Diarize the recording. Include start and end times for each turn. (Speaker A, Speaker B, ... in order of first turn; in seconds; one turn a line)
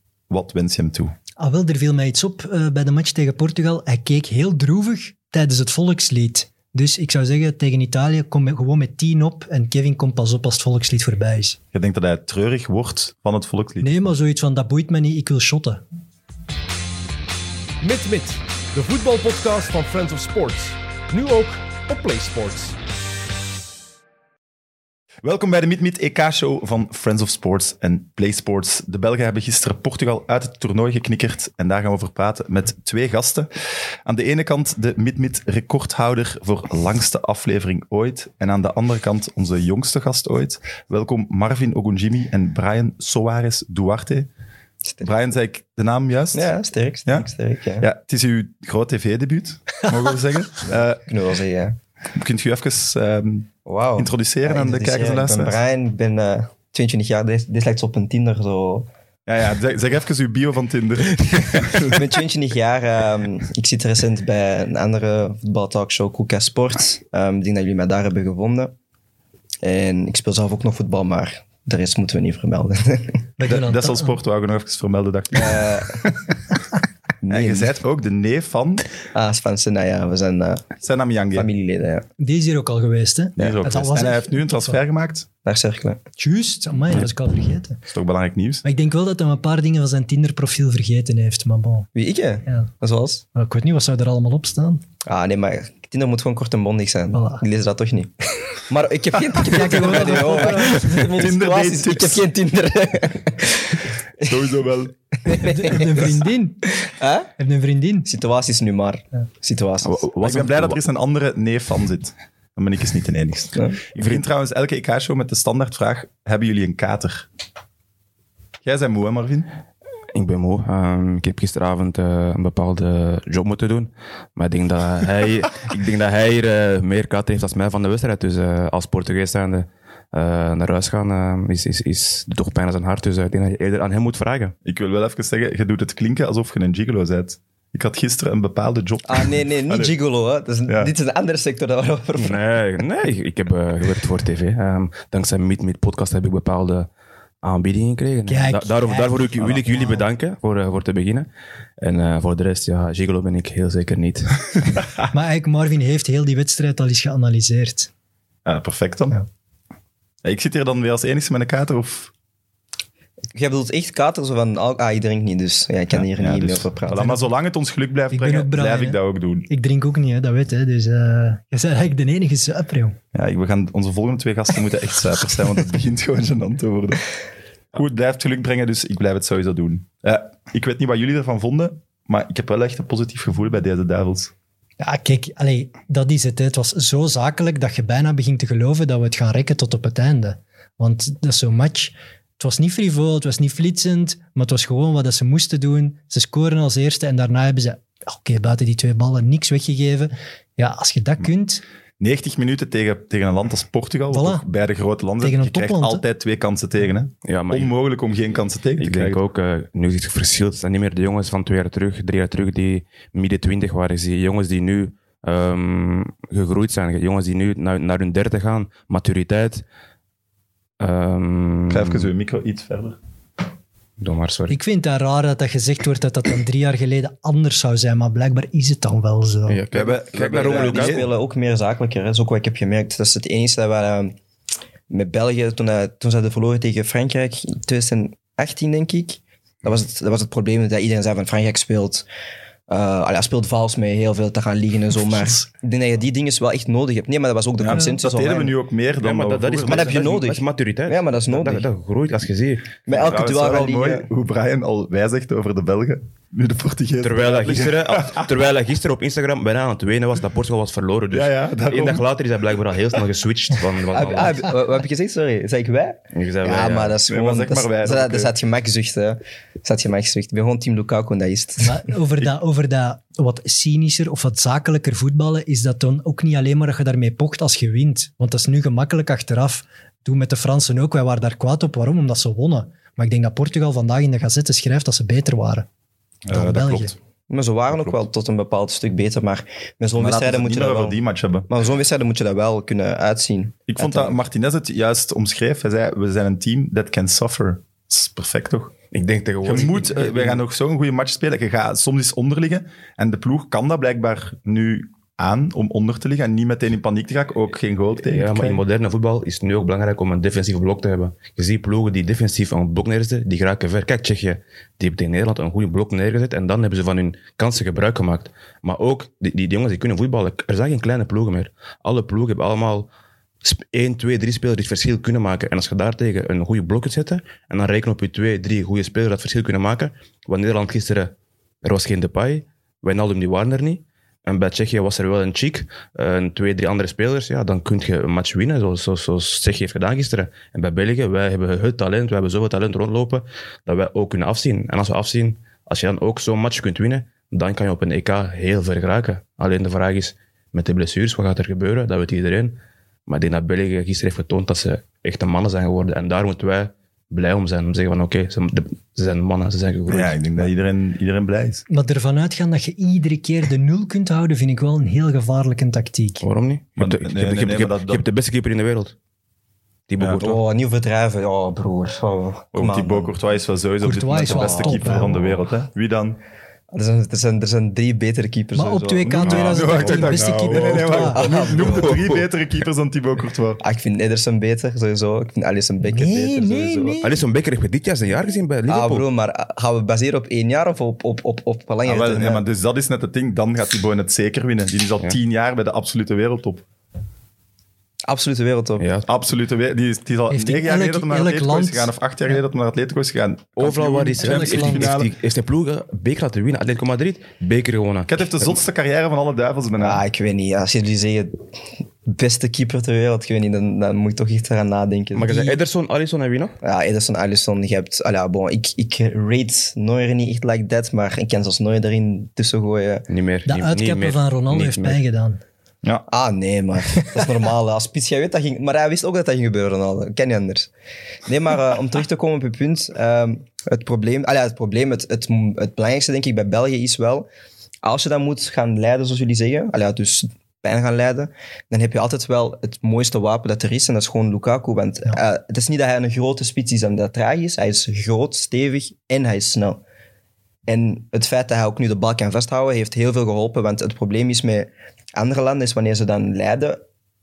Speaker A: 0.3-1.1
Speaker B: 1.4-11.6
Speaker A: 11.7-13.9
Speaker B: 13.8-15.8
Speaker C: 17.8-22.8
Speaker A: 25.2-33.5
Speaker A: 34.0-44.3
Speaker A: 45.0-46.5
Speaker D: 46.3-47.9
Speaker A: 47.8-51.0
Speaker D: 50.6-51.8
Speaker A: 52.1-55.5
Speaker D: 53.6-58.9
Speaker A: 59.3-61.9
Speaker D: 61.7-68.7
Speaker D: 69.6-73.2
Speaker B: 73.4-74.1
Speaker A: 73.4-76.1
Speaker D: 75.3-76.1
Speaker D: 77.2-77.7
Speaker A: 77.3-78.9
Speaker D: 79.1-80.7
Speaker A: 80.8-81.5
Speaker D: 81.3-82.0
Speaker B: 82.2-84.8
Speaker A: 83.4-85.3
Speaker D: 85.4-86.0
Speaker B: 86.2-87.8
Speaker A: 87.9-88.6
Speaker B: 88.6-91.9
Speaker D: 91.9-93.2
Speaker B: 93.3-94.8
Speaker D: 95.0-104.5
Speaker B: 97.1-97.4
Speaker B: 99.4-101.1
Speaker A: 100.2-102.2
Speaker A: 104.2-104.9
Speaker B: 105.2-106.8
Speaker D: 105.2-107.3
Speaker B: 107.4-108.1
Speaker D: 108.0-110.0
Speaker E: 109.8-110.8
Speaker A: 110.2-117.3
Speaker A: 118.6-119.5
Speaker E: 120.1-134.5
Speaker A: 134.6-139.9
Speaker D: 139.1-142.4
Speaker E: 142.2-146.9
Speaker E: 147.4-151.3
Speaker B: 148.3-150.0
Speaker E: 151.8-154.8
Speaker B: 155.1-157.9
Speaker A: 158.4-159.2
Speaker A: 160.2-162.1
Speaker D: 163.3-167.2
Speaker A: 165.9-169.5
Speaker B: 168.1-172.9
Speaker A: 173.1-177.0
Speaker A: 177.7-184.3
Speaker B: 184.8-201.6
Speaker A: 202.0-209.2
Speaker B: 204.1-204.4
Speaker B: 205.2-206.0
Speaker E: 207.2-207.7
Speaker E: 208.8-219.6
Speaker E: 220.8-222.1
Speaker A: 221.7-223.0
Speaker E: 224.0-224.6
Speaker B: 224.5-229.6
Speaker E: 229.5-231.0
Speaker A: 229.7-231.1
Speaker D: 230.3-234.1
Speaker D: 234.9-242.1
Speaker D: 242.7-248.5
Speaker A: 247.6-250.1
Speaker E: 249.0-253.0
Speaker D: 249.6-251.7
Speaker D: 252.9-254.1
Speaker A: 252.9-258.2
Speaker E: 257.0-264.5
Speaker A: 261.1-262.0
Speaker D: 263.9-271.9
Speaker E: 266.1-267.0
Speaker A: 267.1-268.3
Speaker B: 271.6-285.6
Speaker A: 286.2-286.9
Speaker B: 286.3-286.9
Speaker D: 287.3-294.2
Speaker A: 289.9-291.5
Speaker A: 293.7-298.7
Speaker E: 298.9-300.4
Speaker A: 299.4-308.6
Speaker E: 308.0-322.9
Speaker E: 323.4-331.1
Speaker E: 331.6-360.5
Speaker A: 359.9-361.6
Speaker B: 361.7-366.2
Speaker E: 366.2-368.9
Speaker A: 366.8-368.0
Speaker E: 369.9-370.4
Speaker D: 370.0-373.1
Speaker A: 372.5-376.2
Speaker B: 373.8-375.1
Speaker D: 374.2-375.1
Speaker D: 376.7-379.5
Speaker B: 378.5-381.2
Speaker A: 379.1-383.6
Speaker E: 379.3-382.2
Speaker D: 380.9-382.0
Speaker D: 383.6-387.0
Speaker B: 385.8-387.2
Speaker E: 387.0-389.0
Speaker D: 388.7-392.4
Speaker A: 391.8-396.6
Speaker D: 398.1-398.8
Speaker E: 398.8-399.1
Speaker A: 399.1-405.1
Speaker B: 400.3-401.9
Speaker E: 403.6-408.5
Speaker B: 404.2-404.9
Speaker A: 408.1-410.0
Speaker D: 409.8-411.4
Speaker D: 412.0-415.3
Speaker E: 415.1-416.5
Speaker B: 415.3-415.6
Speaker D: 416.6-423.1
Speaker E: 423.1-425.0
Speaker B: 423.5-425.4
Speaker D: 426.1-430.7
Speaker D: 431.2-437.3
Speaker D: 437.8-449.8
Speaker D: 450.7-456.8